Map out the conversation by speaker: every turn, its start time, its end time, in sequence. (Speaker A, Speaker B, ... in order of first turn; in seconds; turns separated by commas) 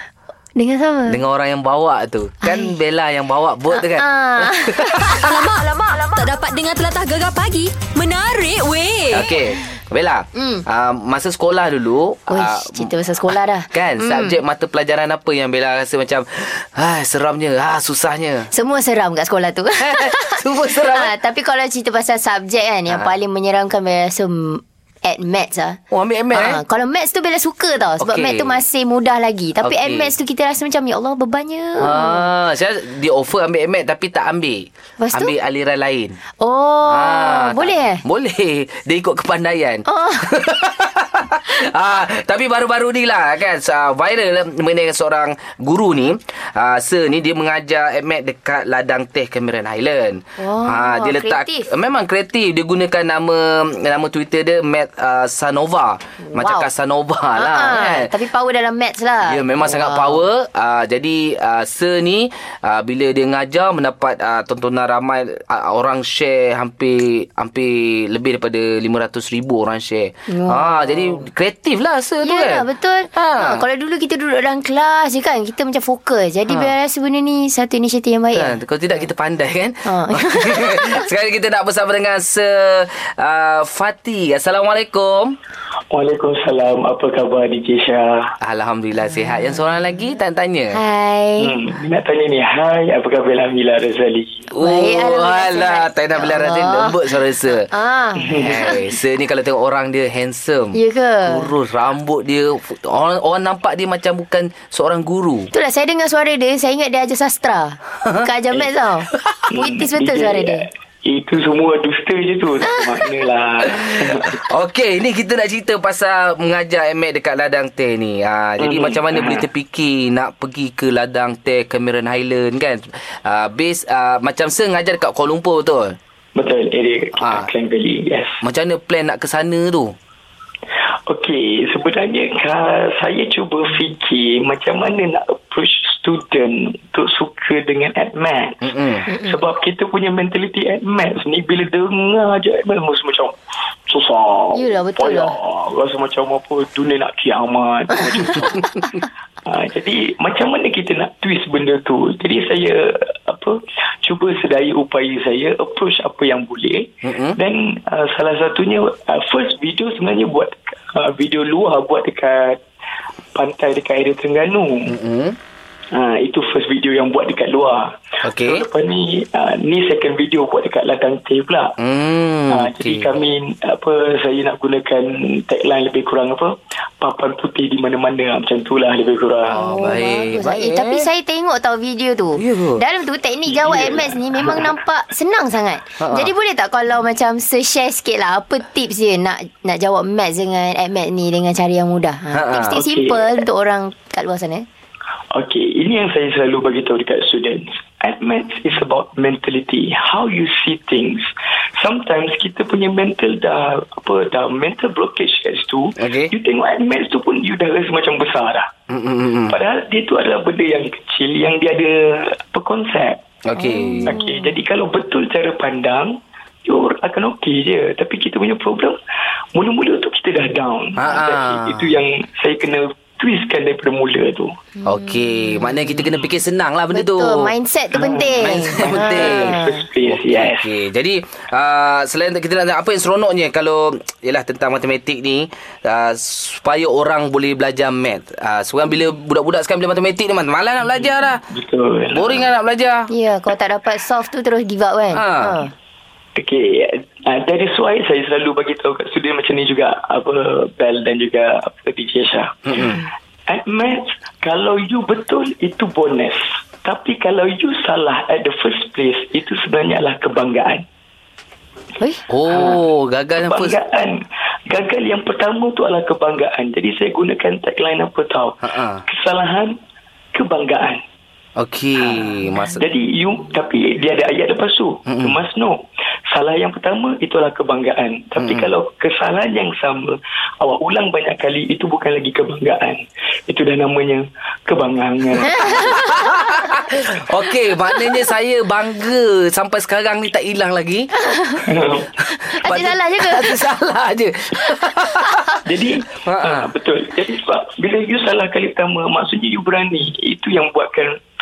Speaker A: 0.6-1.2, Speaker B: 1.1-5.5, Speaker A: 2.4-2.7, Speaker A: 3.7-4.8, Speaker C: 5.2-9.3, Speaker B: 9.1-18.5, Speaker A: 10.3-10.6, Speaker A: 12.3-14.4, Speaker A: 18.5-25.8, Speaker B: 19.8-21.1, Speaker B: 25.9-26.6, Speaker A: 26.3-32.3, Speaker B: 28.0-28.6, Speaker B: 29.6-30.1, Speaker B: 31.8-36.2, Speaker A: 35.0-35.3, Speaker A: 36.4-38.0, Speaker B: 36.9-58.1, Speaker A: 39.9-40.3, Speaker A: 50.4-51.7, Speaker A: 56.2-56.7, Speaker A: 57.4-60.2, Speaker B: 59.2-73.7, Speaker A: 70.3-71.2, Speaker A: 72.2-78.6, Speaker B: 78.3-85.4, Speaker A: 79.8-81.1, Speaker D: 85.9-88.3, Speaker B: 88.4-90.8, Speaker A: 90.7-91.6, Speaker D: 91.4-94.5, Speaker B: 94.5-97.7, Speaker A: 94.6-98.8, Speaker D: 98.2-98.8, Speaker B: 98.4-105.5, Speaker A: 100.7-101.5, Speaker A: 105.5-110.7, Speaker D: 109.5-114.4, Speaker B: 113.8-126.0, Speaker D: 118.6-119.5, Speaker D: 126.4-128.4, Speaker B: 127.2-127.5, Speaker B: 128.4-130.0, Speaker D: 131.1-138.6, Speaker B: 138.6-139.1, Speaker A: 139.1-139.4, Speaker D: 139.1-143.4, Speaker D: 143.9-162.6, Speaker A: 144.5-145.4, Speaker B: 157.0-157.4, Speaker D: 163.3-165.0, Speaker B: 164.9-165.4, Speaker D: 165.9-171.8, Speaker B: 168.2-168.7, Speaker B: 171.8-173.1, Speaker D: 172.5-179.6, Speaker B: 179.5-181.1, Speaker A: 179.6-194.7, Speaker B: 182.4-182.8, Speaker D: 183.6-184.7, Speaker B: 186.0-186.3, Speaker B: 192.3-192.7, Speaker D: 192.7-193.4, Speaker D: 195.3-208.7, Speaker B: 206.0-206.3, Speaker B: 208.9-209.6, Speaker D: 209.5-213.2, Speaker B: 213.5-214.2, Speaker A: 213.6-214.5, Speaker D: 214.1-219.0, Speaker D: 219.6-224.5, Speaker B: 221.0-222.0, Speaker B: 224.8-227.5, Speaker A: 226.9-229.7, Speaker D: 227.9-230.7, Speaker B: 228.4-241.4, Speaker D: 241.5-242.5, Speaker B: 242.1-243.1, Speaker A: 243.1-245.7, Speaker B: 245.1-245.6, Speaker D: 246.4-260.8, Speaker B: 252.7-253.0, Speaker B: 262.3-263.8, Speaker D: 262.5-262.8, Speaker D: 263.4-269.8, Speaker B: 268.6-269.0, Speaker D: 270.3-271.0, Speaker B: 271.6-272.8, Speaker D: 272.1-285.9, Speaker B: 275.1-275.4, Speaker B: 278.4-278.7, Speaker A: 285.4-286.3, Speaker B: 285.7-291.1, Speaker A: 291.3-291.6, Speaker D: 291.7-292.1, Speaker A: 292.6-293.5, Speaker B: 292.6-295.5, Speaker D: 295.6-301.2, Speaker B: 296.2-296.7